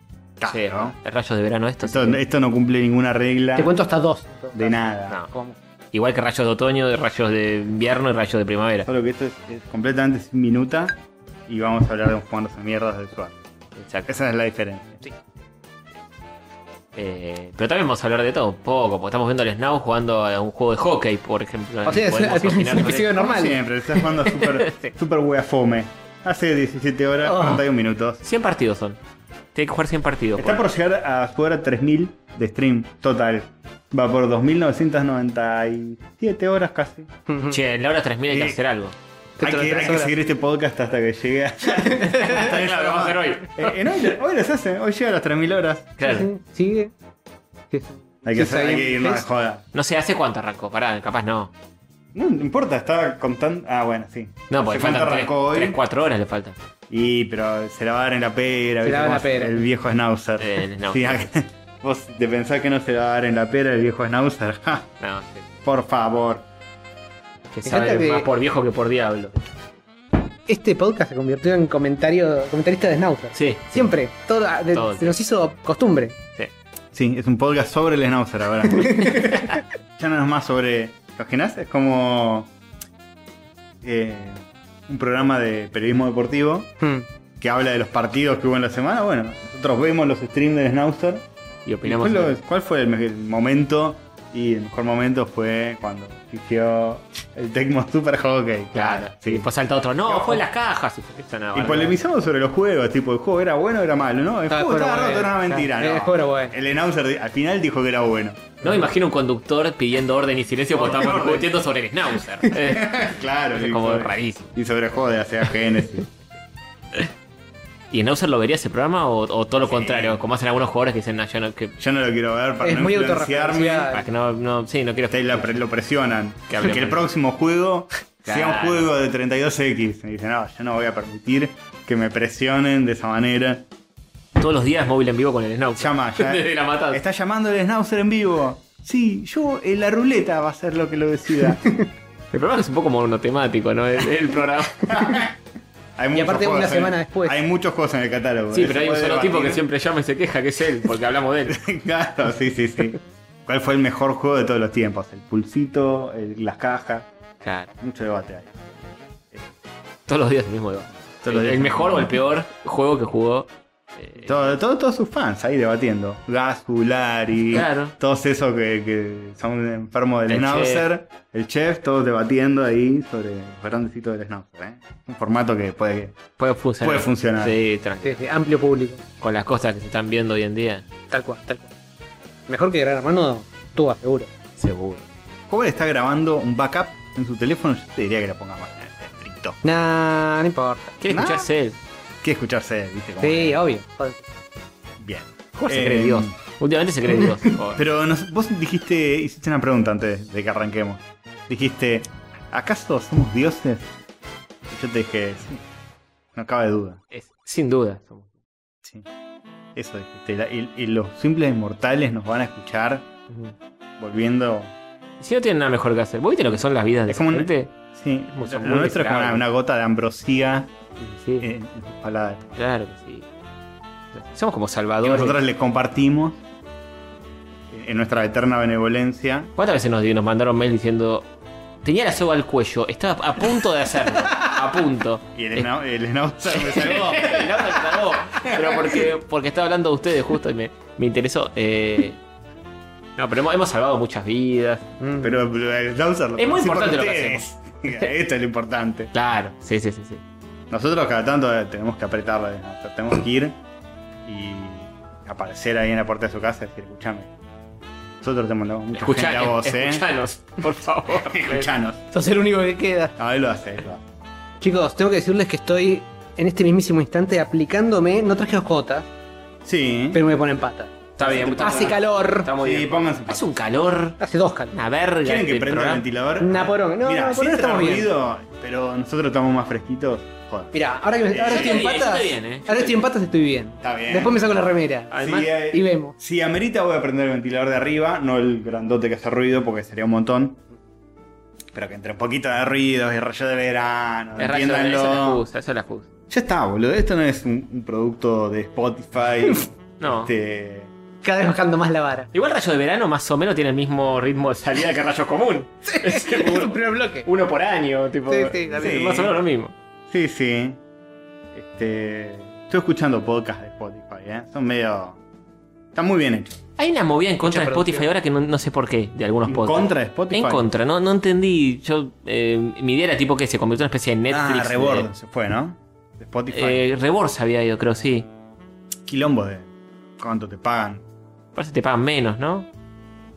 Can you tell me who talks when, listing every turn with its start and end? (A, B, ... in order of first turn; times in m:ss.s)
0:00.4-0:01.0 A
0:00.5-0:02.2 B
0:01.8-0:03.7 A
0:03.6-0:04.8 C
0:04.5-0:05.2 A
0:05.3-0:05.6 C
0:05.9-0:08.9 B
0:08.9-0:13.4 A
0:13.8-0:14.2 B
0:14.1-0:15.0 A
0:17.0-0:23.3 B
0:21.9-0:23.6 C
0:23.2-0:28.2 A
0:24.4-0:24.9 B
0:27.2-0:27.6 C
0:28.2-0:29.0 B
0:29.6-0:30.6 B
0:30.4-0:37.1 A
0:37.3-0:37.6 C
0:37.5-0:39.0 B
0:38.3-0:38.6 A
0:39.4-0:40.2 C
0:39.4-0:45.9 A
0:41.8-0:42.4 C
0:42.1-0:43.8 B
0:46.0-0:46.3 B
0:46.0-0:46.9 C
0:47.7-0:49.3 C
0:48.2-0:49.6 A
0:49.7-0:51.5 B
0:52.1-0:55.8 A
0:54.5-0:56.6 B
0:56.9-1:04.9 A
0:58.8-0:59.6 C
1:00.4-1:01.3 B
1:05.0-1:05.5 B
1:05.6-1:06.5 A
1:07.5-1:09.4 B
1:07.6-1:08.3 C
1:10.5-1:16.2 C
1:13.4-1:13.8 B
1:14.7-1:15.2 B
1:16.9-1:22.5 A
1:18.7-1:19.5 C
1:23.8-1:26.7 A
1:26.8-1:27.1 C
1:27.4-1:31.3 A
1:31.7-1:32.4 B
1:31.8-1:39.5 A
1:38.7-1:42.0 B
1:40.0-1:40.4 A
1:41.5-1:48.8 A
1:44.5-1:46.6 C
1:48.6-1:54.5 B
1:50.8-1:51.5 A
1:52.6-1:56.1 A
1:57.9-2:01.8 B
1:59.6-2:00.2 A
2:01.8-2:03.9 A
2:02.6-2:04.1 C
2:03.9-2:05.6 B
2:05.1-2:13.7 A
2:06.5-2:07.0 B
2:08.2-2:08.9 B
2:14.4-2:17.0 B
2:15.8-2:21.6 A
2:21.6-2:21.9 C
2:22.3-2:25.0 B
2:24.9-2:25.4 A
2:26.0-2:29.6 A
2:26.1-2:27.4 C
2:28.5-2:31.6 B
2:31.5-2:37.1 A
2:37.4-2:37.7 B
2:37.8-2:38.6 A
2:40.1-2:44.6 B
2:41.2-2:42.2 A
2:44.2-2:56.2 A
2:47.5-2:47.9 B
2:50.3-2:50.9 B
2:56.4-2:58.2 B
2:56.8-2:57.6 A
2:58.0-2:59.0 C
2:59.2-3:00.9 B
3:01.1-3:01.7 C
3:02.5-3:04.3 C
3:04.6-3:09.6 A
3:09.6-3:11.0 C
3:11.0-3:11.8 B
3:11.1-3:11.5 A
3:12.2-3:13.6 A
3:13.2-3:14.3 C
3:15.0-3:16.4 A
3:15.6-3:17.8 B
3:17.7-3:23.9 A
3:24.7-3:25.6 A
3:26.4-3:27.0 A
3:27.1-3:28.3 B
3:29.8-3:33.1 A
3:33.3-3:33.5 B
3:34.0-3:34.7 A
3:35.2-3:37.8 B
3:37.1-3:40.7 A
3:38.3-3:39.5 B
3:41.0-3:41.5 B
3:41.4-3:42.6 A
3:42.6-3:43.3 B
3:44.1-3:45.4 B
3:45.0-3:46.4 A
3:47.7-3:49.5 A
3:49.6-3:51.3 B
3:51.8-3:55.7 B
3:55.4-3:59.1 A
3:56.5-4:02.2 B
4:03.2-4:04.9 B
4:05.0-4:05.3 C
4:05.2-4:09.1 A
4:06.4-4:08.1 B
4:09.1-4:10.2 B
4:10.7-4:13.6 A
4:14.2-4:17.3 A
4:18.2-4:20.0 A
4:18.9-4:21.7 B
4:21.3-4:22.0 A
4:22.1-4:23.2 C
4:23.2-4:24.0 A
4:24.6-4:29.1 C
4:29.6-4:30.2 A
4:30.1-4:32.5 C
4:31.2-4:34.2 B
4:31.2-4:32.0 A
4:32.6-4:33.5 A
4:34.2-4:34.7 C
4:34.7-4:36.0 B
4:35.2-4:40.7 A
4:36.4-4:38.1 C
4:40.7-4:46.2 C
4:41.3-4:41.8 A
4:41.4-4:43.0 B
4:43.8-4:44.4 A
4:45.1-4:45.5 B
4:45.1-4:50.6 A
4:51.7-4:55.4 A
4:54.4-4:56.1 B
4:56.3-5:00.9 A
5:00.0-5:00.3 B
5:01.2-5:02.3 C
5:02.3-5:09.7 B
5:05.9-5:07.3 C
5:08.3-5:09.0 C
5:08.8-5:09.4 A
5:10.1-5:10.8 A
5:11.5-5:15.2 A
5:15.9-5:16.6 A
5:16.8-5:25.1 B
5:17.4-5:18.1 C
5:19.5-5:20.7 A
5:24.3-5:26.8 A
5:26.5-5:28.3 B
5:29.1-5:31.0 A
5:31.6-5:32.7 B